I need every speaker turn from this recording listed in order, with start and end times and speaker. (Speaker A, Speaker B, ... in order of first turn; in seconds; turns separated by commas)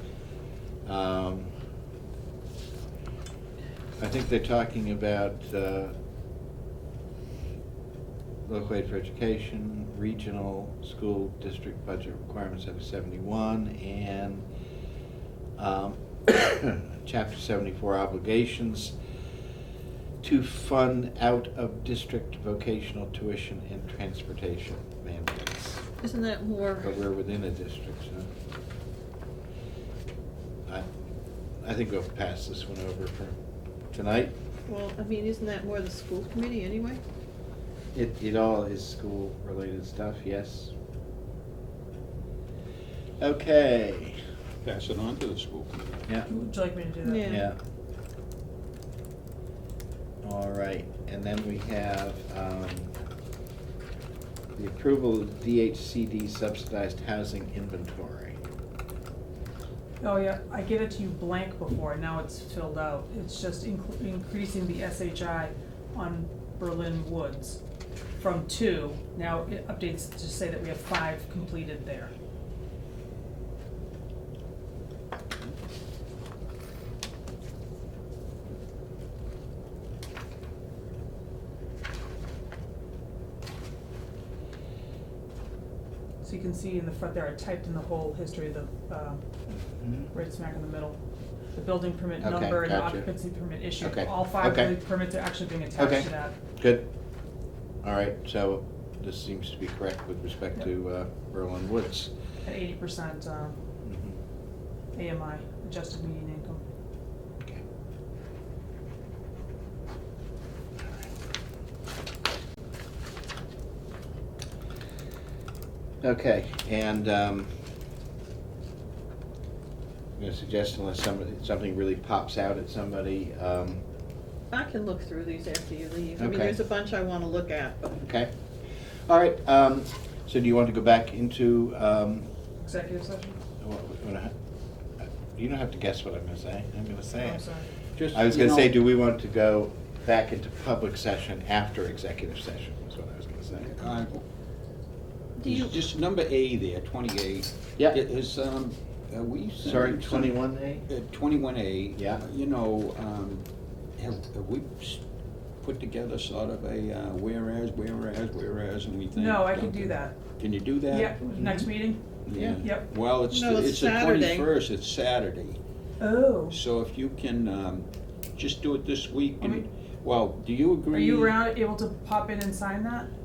Speaker A: 0.9-1.5, Speaker A: 4.0-5.9, Speaker A: 8.5-14.4, Speaker A: 15.6-18.9, Speaker A: 20.2-25.9, Speaker B: 26.0-26.9, Speaker A: 26.8-28.3, Speaker A: 31.6-33.4, Speaker A: 33.9-34.4, Speaker B: 34.7-37.0, Speaker A: 38.0-40.7, Speaker A: 43.2-44.2, Speaker C: 44.6-46.1, Speaker D: 46.3-47.3, Speaker B: 47.0-47.5, Speaker A: 47.2-47.6, Speaker A: 50.2-52.9, Speaker A: 54.6-58.4, Speaker D: 60.0-67.6, Speaker D: 68.2-72.1, Speaker D: 86.2-89.2, Speaker A: 89.8-90.1, Speaker D: 90.1-91.0, Speaker D: 91.5-96.3, Speaker A: 92.2-93.1, Speaker A: 93.8-94.8, Speaker A: 95.8-96.9, Speaker A: 97.8-102.1, Speaker D: 102.4-103.6, Speaker A: 103.8-104.2, Speaker D: 104.9-106.6, Speaker A: 116.0-117.5, Speaker A: 120.2-123.8, Speaker B: 124.5-128.0, Speaker A: 126.2-126.6, Speaker A: 128.0-128.3, Speaker A: 129.1-132.3, Speaker D: 132.6-133.4, Speaker A: 133.6-134.3, Speaker A: 135.0-137.4, Speaker D: 137.2-137.7, Speaker C: 138.0-138.8, Speaker A: 138.1-143.9, Speaker C: 143.6-144.2, Speaker B: 145.4-145.8, Speaker C: 145.4-153.4, Speaker A: 149.6-150.9, Speaker A: 151.9-152.2, Speaker C: 154.0-155.0, Speaker C: 155.6-161.7, Speaker D: 159.1-160.2, Speaker D: 160.9-162.0, Speaker C: 162.3-165.6, Speaker A: 162.3-162.6, Speaker B: 163.3-164.5, Speaker D: 166.0-166.6, Speaker C: 166.5-171.4, Speaker D: 170.9-173.1